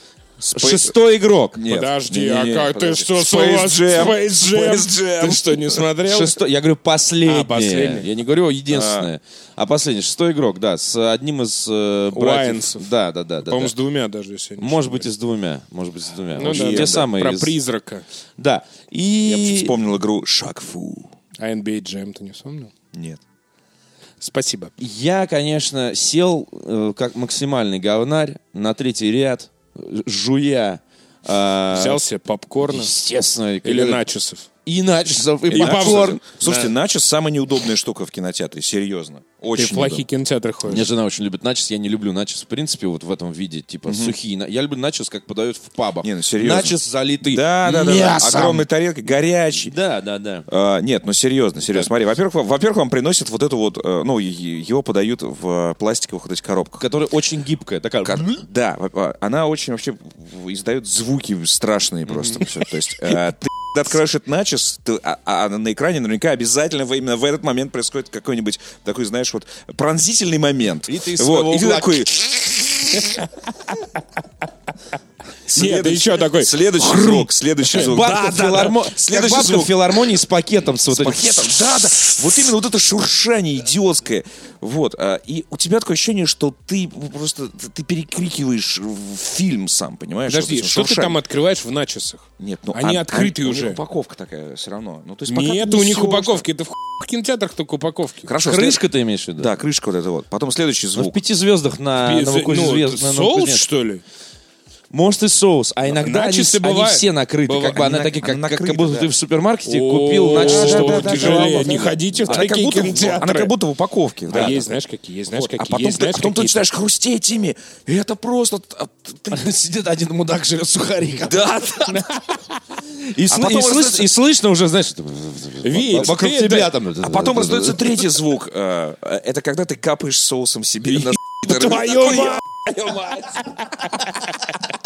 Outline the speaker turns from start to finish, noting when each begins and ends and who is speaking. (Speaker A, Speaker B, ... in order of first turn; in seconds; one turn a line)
Speaker A: 0.4-1.6
Speaker B: 0.5-0.9
Speaker B: 1.5-5.9
Speaker C: 1.6-6.4
Speaker A: 6.0-13.7
Speaker C: 7.2-8.1
Speaker B: 8.7-9.1
Speaker C: 12.1-12.9
Speaker C: 13.4-15.1
Speaker A: 14.6-17.6
Speaker C: 16.4-18.0
Speaker B: 16.4-17.1
Speaker A: 18.4-19.7
Speaker B: 19.2-21.1
Speaker C: 21.4-22.7
Speaker B: 22.9-23.2
Speaker C: 24.2-24.7
Speaker A: 24.8-32.0
Speaker C: 31.7-32.9
Speaker A: 32.6-34.0
Speaker C: 33.6-34.5
Speaker A: 34.6-36.2
Speaker B: 35.5-40.0
Speaker C: 35.5-36.7
Speaker C: 39.5-40.9
Speaker A: 40.6-48.6
Speaker B: 43.9-44.1
Speaker B: 46.0-49.7
Speaker A: 49.6-50.5
Speaker B: 50.5-56.8
Speaker A: 56.8-58.4
Speaker B: 58.0-73.2
Speaker A: 70.9-72.0
Speaker C: 75.5-77.9
Speaker B: 75.5-80.1
Speaker A: 77.7-81.6
Speaker B: 80.9-91.2
Speaker C: 90.3-93.8
Speaker B: 92.4-96.4
Speaker C: 95.3-98.3
Speaker B: 98.2-98.8
Speaker A: 98.4-99.5
Speaker B: 99.4-101.2
Speaker A: 101.0-103.6
Speaker C: 102.0-104.0
Speaker A: 104.9-112.5
Speaker C: 105.9-107.8
Speaker B: 107.7-109.1
Speaker C: 109.7-113.5
Speaker B: 110.3-114.7
Speaker C: 114.3-116.6
Speaker B: 115.3-119.5
Speaker A: 119.3-121.7
Speaker B: 121.2-122.1
Speaker C: 121.9-122.4
Speaker A: 123.0-128.0
Speaker B: 123.3-124.1
Speaker C: 125.6-126.7
Speaker B: 127.0-133.2
Speaker C: 130.9-134.5